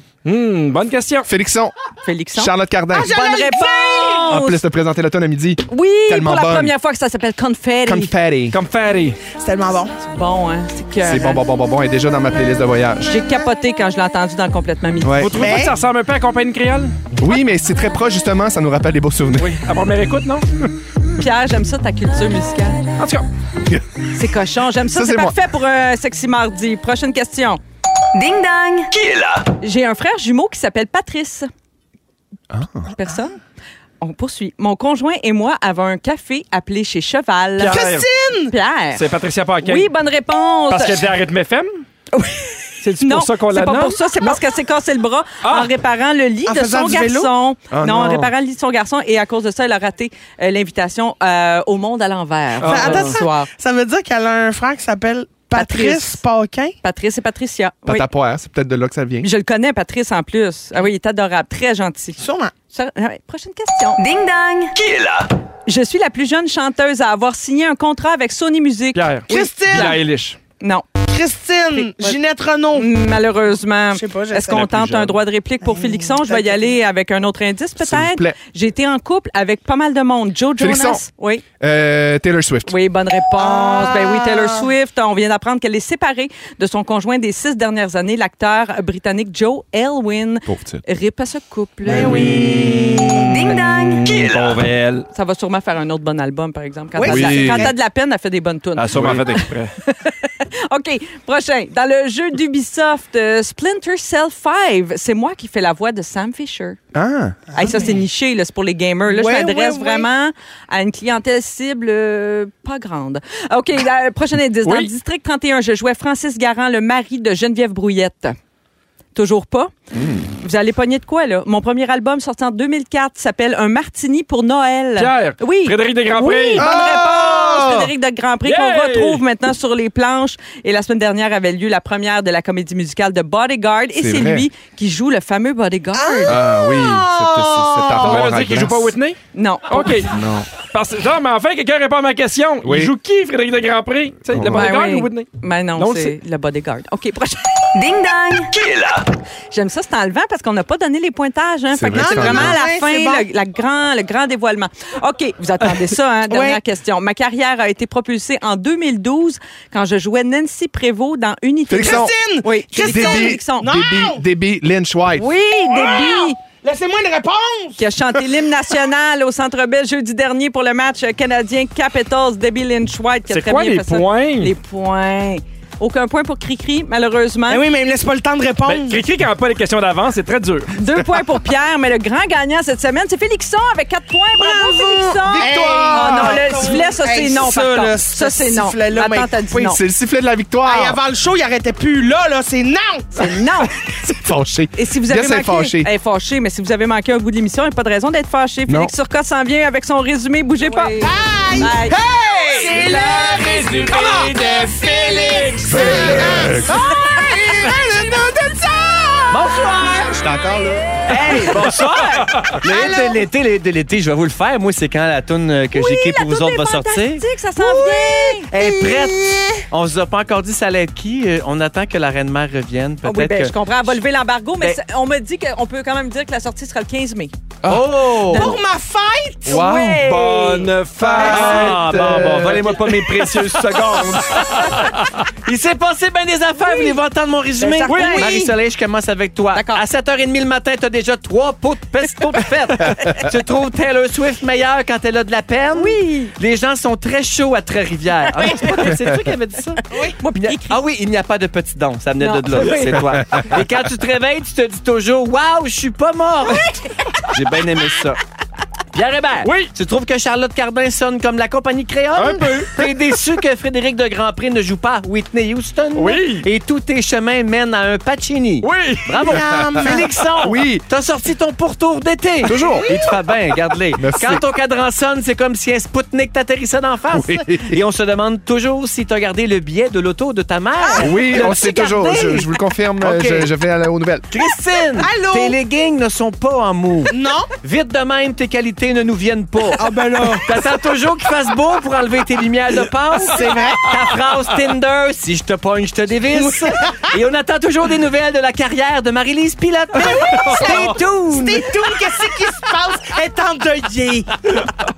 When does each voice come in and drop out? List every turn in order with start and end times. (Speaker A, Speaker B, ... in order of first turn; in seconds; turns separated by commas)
Speaker A: 0.2-1.3, Speaker B: 1.2-1.7, Speaker C: 2.0-4.6, Speaker B: 2.3-3.2, Speaker D: 2.9-4.4, Speaker B: 4.3-6.7, Speaker C: 5.7-8.1, Speaker B: 7.8-8.6, Speaker A: 8.5-9.2, Speaker D: 9.4-9.9, Speaker C: 10.0-11.4, Speaker B: 11.0-13.4, Speaker C: 13.0-15.3, Speaker B: 15.0-15.3, Speaker A: 15.2-16.9, Speaker D: 15.3-15.8, Speaker B: 17.1-19.6, Speaker A: 19.4-20.5, Speaker C: 21.2-22.9, Speaker A: 23.0-23.3, Speaker B: 23.7-24.0, Speaker C: 24.1-27.6, Speaker B: 24.8-25.5, Speaker E: 28.1-28.9, Speaker F: 28.9-29.5, Speaker C: 29.6-31.5, Speaker B: 32.5-32.9, Speaker C: 32.9-33.4, Speaker C: 34.0-37.8, Speaker A: 37.6-38.1, Speaker D: 37.6-38.5, Speaker C: 38.5-39.0, Speaker A: 38.9-39.9, Speaker C: 39.6-41.0, Speaker A: 40.7-41.8, Speaker C: 42.1-53.5, Speaker A: 42.8-44.4, Speaker A: 45.4-45.7, Speaker D: 46.5-47.3, Speaker B: 47.7-48.3, Speaker A: 52.6-53.2, Speaker D: 52.6-56.8, Speaker C: 55.5-56.2, Speaker C: 56.8-58.1, Speaker B: 57.9-59.3, Speaker C: 59.2-62.2, Speaker D: 62.2-62.5, Speaker C: 62.7-64.0, Speaker E: 64.0-64.7, Speaker F: 64.7-65.3, Speaker C: 65.7-69.1, Speaker A: 68.9-70.4, Speaker D: 69.3-70.0, Speaker C: 69.7-70.0, Speaker C: 70.6-70.9, Speaker D: 71.1-72.9, Speaker C: 71.7-72.2, Speaker C: 72.7-81.4, Speaker D: 73.9-74.8, Speaker B: 74.5-75.2, Speaker D: 75.6-76.8, Speaker B: 77.8-78.3, Speaker B: 80.6-81.0, Speaker B: 81.6-82.7, Speaker C: 82.7-92.3, Speaker D: 83.4-84.7, Speaker B: 90.5-90.8, Speaker B: 91.9-93.2, Speaker D: 91.9-93.4, Speaker A: 92.0-95.1, Speaker E: 93.2-94.2, Speaker F: 94.0-94.6, Speaker C: 95.1-106.8, Speaker D: 97.0-97.7, Speaker B: 97.0-97.7, Speaker A: 98.8-99.7, Speaker B: 98.9-99.3, Speaker B: 106.9-107.6, Speaker C: 107.5-118.3, Speaker D: 107.6-108.0, Speaker D: 109.0-110.1, Speaker A: 114.6-114.9, Speaker C: 119.1-119.7, Speaker B: 119.9-120.3, Speaker C: 120.4-136.4, Speaker A: 125.0-126.7, Speaker B: 126.5-127.9, Speaker A: 128.4-129.2, Speaker B: 133.9-134.5, Speaker D: 135.9-138.3, Speaker B: 136.2-138.9, Speaker A: 138.0-139.2, Speaker C: 139.3-140.1, Speaker A: 139.7-146.1, Speaker B: 140.1-140.5, Speaker B: 142.6-142.9, Speaker B: 144.3-144.7, Speaker C: 144.5-147.8, Speaker E: 147.7-148.5, Speaker F: 148.3-149.0, Speaker C: 149.5-163.7, Speaker B: 151.7-152.6, Speaker D: 151.9-153.3, Speaker D: 156.3-156.6, Speaker B: 161.7-162.1, Speaker D: 161.7-164.2, Speaker B: 162.8-165.3, Speaker C: 165.2-166.4, Speaker D: 165.6-167.8, Speaker C: 167.8-177.6, Speaker A: 173.3-174.5, Speaker D: 177.5-179.0, Speaker A: 178.6-180.7, Speaker C: 180.8-189.8, Speaker D: 184.3-189.5, Speaker B: 185.3-186.7, Speaker B: 189.5-191.0, Speaker D: 190.6-193.3, Speaker C: 193.1-194.1, Speaker B: 194.0-195.9, Speaker C: 194.7-202.0, Speaker B: 198.7-198.9, Speaker D: 200.7-210.7, Speaker A: 202.0-206.6, Speaker B: 205.7-206.7, Speaker G: 209.3-210.2, Speaker B: 210.2-211.0, Speaker G: 211.1-217.2, Speaker C: 211.4-212.2, Speaker A: 212.2-212.6, Speaker D: 212.7-213.2, Speaker C: 215.7-218.9, Speaker D: 217.6-219.6, Speaker G: 218.5-223.5, Speaker C: 223.0-227.3, Speaker B: 227.6-228.1, Speaker G: 227.7-228.6, Speaker C: 228.3-228.6, Speaker D: 228.3-229.7, Speaker G: 229.4-234.7, Speaker A: 229.8-235.1, Speaker D: 231.2-231.7, Speaker B: 231.7-232.5, Speaker G: 235.3-249.8, Speaker C: 236.6-236.9, Speaker C: 237.6-238.4, Speaker A: 237.9-238.2, Speaker D: 237.9-238.5, Speaker C: 239.5-239.8, Speaker C: 245.7-246.3, Speaker C: 248.4-248.9, Speaker D: 249.9-250.2, Speaker C: 250.2-250.8, Speaker G: 250.3-256.7, Speaker C: 252.2-253.0, Speaker B: 253.2-253.4, Speaker C: 256.6-257.1, Speaker G: 257.3-258.2, Speaker G: 258.9-282.5, Speaker A: 259.4-259.7, Speaker A: 262.1-263.1, Speaker A: 265.9-266.5, Speaker A: 268.6-270.5, Speaker D: 269.2-270.2, Speaker B: 270.4-270.9, Speaker B: 272.4-272.9, Speaker B: 274.0-274.4, Speaker B: 277.1-277.8, Speaker D: 280.8-282.2, Speaker B: 281.0-284.3, Speaker G: 283.0-283.5, Speaker G: 284.3-301.8, Speaker D: 285.0-285.6, Speaker D: 287.1-287.5, Speaker D: 289.8-290.5, Speaker D: 293.2-293.9, Speaker D: 296.3-297.1, Speaker D: 299.9-304.5